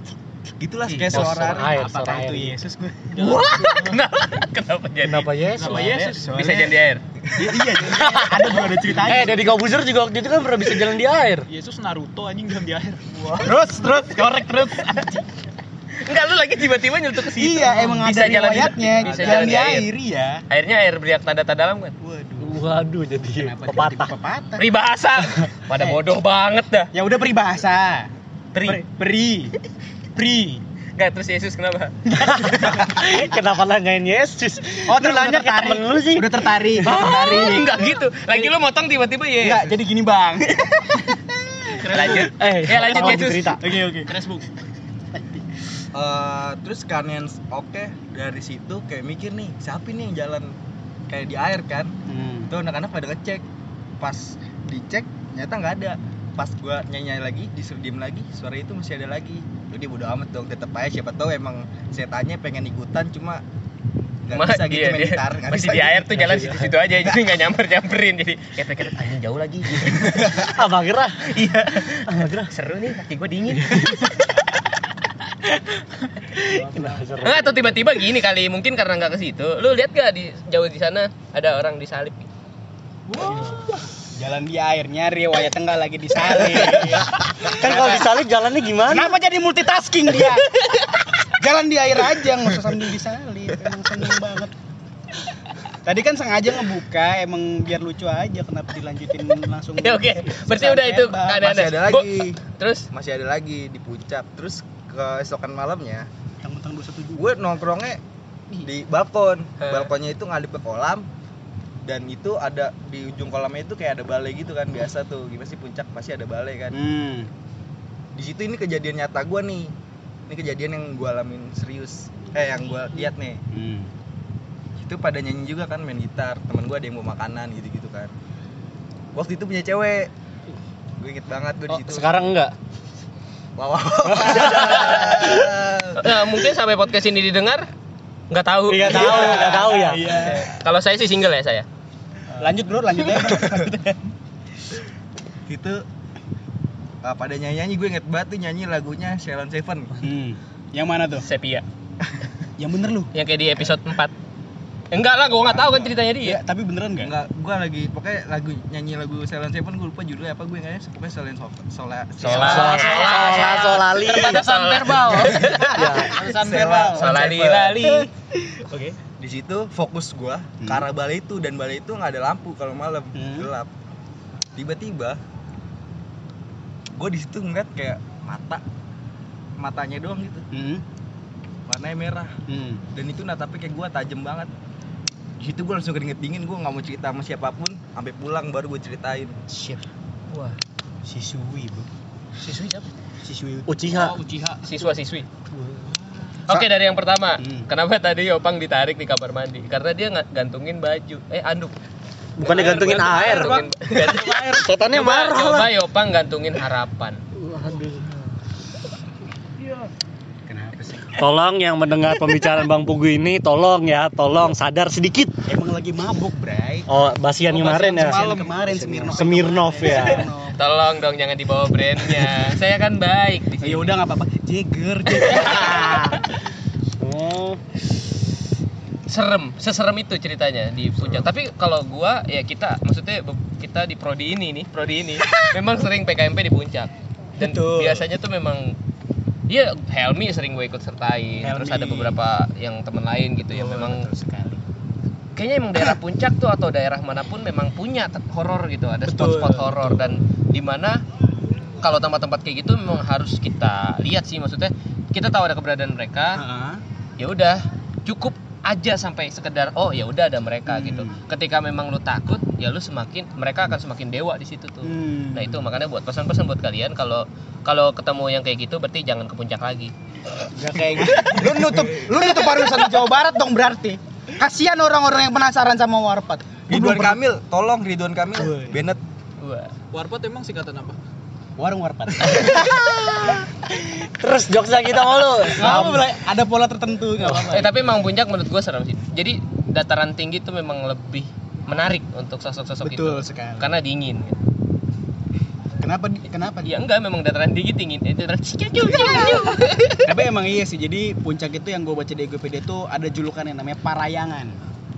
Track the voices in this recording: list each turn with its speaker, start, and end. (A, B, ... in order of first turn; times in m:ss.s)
0:00.6-0:01.7 A
0:00.8-0:03.9 B
0:01.1-0:02.6 C
0:03.2-0:05.3 D
0:05.0-0:06.1 C
0:05.5-0:06.4 E
0:05.9-0:06.8 B
0:06.2-0:07.0 D
0:07.4-0:09.4 B
0:07.8-0:11.5 C
0:11.5-0:13.4 E
0:13.4-0:15.2 B
0:16.0-0:19.9 D
0:17.4-0:20.4 B
0:19.0-0:19.6 A
0:20.5-0:21.9 D
0:22.0-0:22.6 B
0:22.4-0:24.1 C
0:23.4-0:24.6 B
0:24.6-0:26.9 D
0:26.9-0:28.1 B
0:28.5-0:28.8 D
0:28.6-0:29.5 B
0:30.2-0:30.6 B
0:31.0-0:32.1 D
0:32.2-0:37.4 C
0:32.2-0:32.7 B
0:34.8-0:37.8 B
0:36.8-0:39.7 D
0:39.4-0:44.4 B
0:41.9-0:43.6 D
0:41.9-0:42.2 E
0:42.0-0:43.6 C
0:44.1-0:44.4 E
0:45.1-0:45.4 B
0:45.9-0:50.6 A
0:51.1-0:52.0 A
0:52.1-0:52.5 B
0:52.5-0:53.4 A
0:54.0-1:03.4 A
1:04.2-1:07.2 A
1:04.3-1:10.4 D
1:06.3-1:06.6 B
1:10.0-1:10.3 A
1:10.3-1:11.4 C
1:11.2-1:14.3 D
1:12.0-1:12.5 C
1:16.5-1:17.8 C
1:17.2-1:22.3 D
1:23.1-1:23.6 B
1:24.1-1:28.1 B
1:27.4-1:29.1 C
1:28.9-1:30.5 B
1:31.3-1:34.5 B
1:35.8-1:41.5 B
1:39.8-1:42.9 D
1:41.4-1:46.1 A
1:46.4-1:47.3 B
1:47.1-1:48.0 A
1:48.6-1:51.1 A
1:49.6-1:49.9 D
1:51.8-1:56.8 A
1:56.7-1:57.3 B
1:58.1-1:59.7 A
2:00.3-2:03.4 A
2:03.5-2:03.9 B
2:04.8-2:08.1 A
2:09.1-2:10.1 A
2:11.0-2:12.1 A
2:11.7-2:12.5 C
2:13.6-2:16.3 A
2:14.0-2:14.9 C
2:14.4-2:17.7 D
2:18.3-2:21.6 D
2:18.7-2:20.2 C
2:18.8-2:20.5 B
2:22.4-2:24.0 B
2:25.5-2:25.8 A
2:27.0-2:29.9 A
2:30.0-2:31.2 B
2:31.2-2:31.6 D
2:32.6-2:33.1 B
2:33.1-2:34.1 D
2:34.9-2:36.4 D
2:35.5-2:35.9 A
2:36.2-2:37.1 B
2:37.0-2:42.9 A
2:42.2-2:45.8 D
2:42.3-2:44.4 C
2:42.6-2:47.0 E
2:45.3-2:47.0 B
2:45.7-2:46.2 C
2:46.2-2:47.9 A
2:46.9-2:48.1 D
2:48.5-2:49.0 B
2:49.2-2:53.7 A
2:50.6-2:50.9 B
2:53.1-2:53.5 B
2:54.5-2:55.2 A
2:57.0-2:58.6 A
2:59.6-3:00.4 A
3:00.5-3:00.8 B
3:01.7-3:02.3 A
3:02.5-3:02.8 B
3:02.9-3:04.5 A
3:05.4-3:09.4 A
3:09.5-3:09.8 B
3:10.3-3:10.6 D
3:11.0-3:11.9 B
3:12.4-3:12.8 E
3:13.2-3:13.7 B
3:13.7-3:14.2 C
3:13.9-3:14.7 E
3:14.6-3:15.3 D
3:15.5-3:16.0 B
3:16.5-3:21.7 D
3:17.4-3:17.7 B
3:22.4-3:25.7 C
3:22.4-3:27.2 D
3:22.7-3:23.5 E
3:22.8-3:23.6 B
3:27.4-3:28.2 C
3:30.5-3:31.3 B
3:31.2-3:35.3 C
3:35.5-3:36.9 B
3:36.9-3:40.3 C
3:37.5-3:38.7 E
3:37.8-3:40.6 B
3:40.6-3:44.0 D
3:43.6-3:46.2 B
3:45.1-3:46.2 D
3:47.0-3:47.6 C
3:49.1-3:58.8 D
3:57.4-3:58.1 B
3:59.5-4:04.1 D
4:01.4-4:02.2 B
4:03.5-4:04.6 B
4:05.3-4:11.0 D
4:09.0-4:10.1 B
4:11.8-4:16.4 D
4:16.3-4:16.8 B
4:17.2-4:29.9 D
4:20.7-4:21.2 B
4:24.8-4:25.6 B
4:30.5-4:37.2 B
4:31.0-4:32.4 A
4:36.7-4:39.0 A
4:38.4-4:38.8 B
4:39.4-4:39.7 D
4:39.9-4:41.0 E
4:41.6-4:42.6 B
4:42.2-4:46.1 C
4:45.5-4:48.0 B
4:47.5-4:54.4 D
4:52.8-4:53.7 B
4:55.8-4:56.8 B
4:56.6-5:00.0 D
4:59.1-4:59.4 B
5:00.0-5:04.6 B